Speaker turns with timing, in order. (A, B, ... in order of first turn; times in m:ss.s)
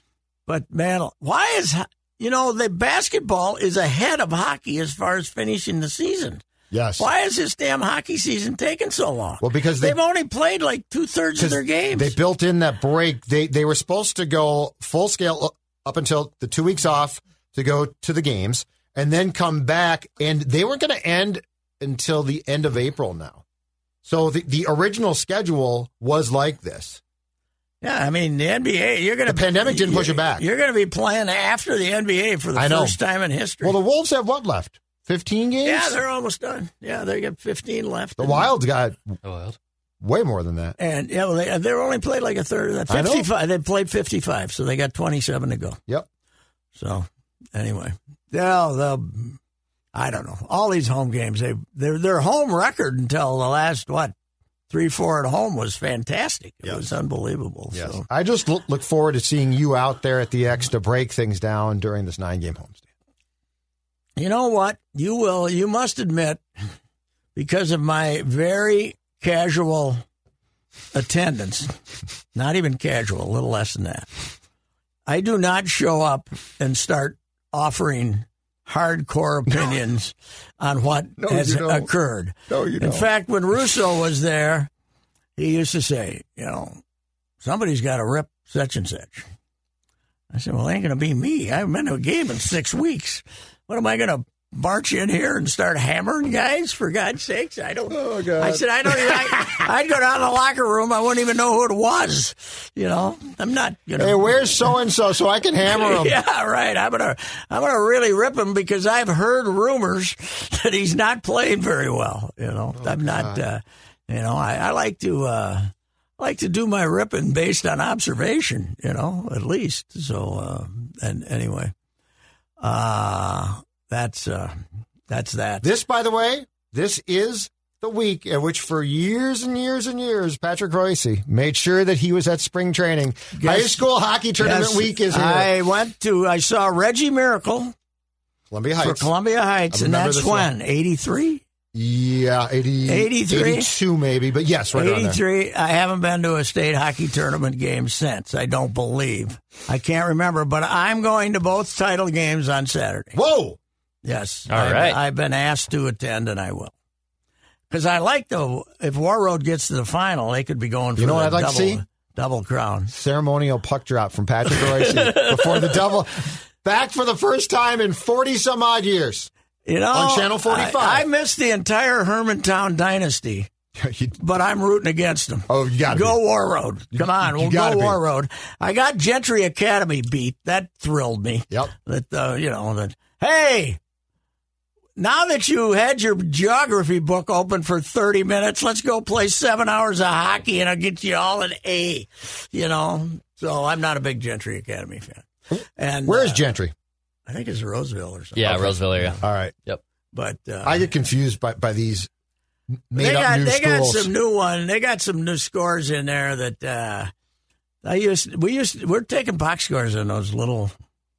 0:00.5-0:06.4 A
0:06.7-0:07.0 B
0:07.0-0:12.2 A
0:09.4-0:10.0 B
0:11.4-0:23.4 B
0:24.0-0:27.0 B
0:27.8-0:33.8 A
0:29.2-0:30.4 B
0:32.5-0:33.0 B
0:33.6-0:36.0 B
0:35.6-0:38.5 A
0:38.2-0:39.2 B
0:39.2-0:39.6 C
0:40.0-0:40.8 B
0:40.8-0:45.8 A
0:42.9-0:43.3 B
0:46.8-0:49.4 A
0:49.9-0:54.1 A
0:54.7-0:58.0 A
0:57.7-1:02.8 B
1:04.2-1:06.4 A
1:07.3-1:10.0 A
1:10.9-1:11.7 A
1:12.3-1:14.1 A
1:15.1-1:24.7 A
1:21.2-1:21.9 B
1:22.5-1:23.1 B
1:25.4-1:26.8 A
1:27.4-1:29.2 A
1:30.3-1:44.6 A
1:37.9-1:39.3 B
1:44.0-1:46.2 B
1:45.6-2:01.7 A
1:52.8-1:53.4 B
2:02.6-2:04.6 A
2:05.1-2:05.6 A
2:05.6-2:15.5 B
2:13.3-2:13.8 A
2:14.4-2:17.7 A
2:18.5-2:19.1 B
2:18.8-2:21.4 A
2:19.7-2:20.5 B
2:21.7-2:25.2 B
2:22.9-2:23.7 A
2:24.7-2:33.2 A
2:33.1-2:33.6 B
2:34.0-2:36.7 A
2:34.5-2:35.0 C
2:37.7-2:42.9 A
2:41.0-2:41.8 B
2:42.9-2:49.3 B
2:44.5-2:45.8 A
2:49.6-2:53.5 A
2:49.9-2:51.0 B
2:53.8-2:54.2 B
2:54.2-3:03.8 A
2:55.5-2:56.2 B
2:56.9-2:58.0 B
3:05.0-3:15.3 A
3:15.8-3:16.4 A
3:16.0-3:16.7 B
3:17.3-3:19.2 A
3:18.4-3:19.8 C
3:19.2-3:19.5 B
3:20.1-3:20.8 A
3:20.6-3:22.1 B
3:22.9-3:24.1 B
3:22.9-3:27.1 A
3:27.8-3:30.7 A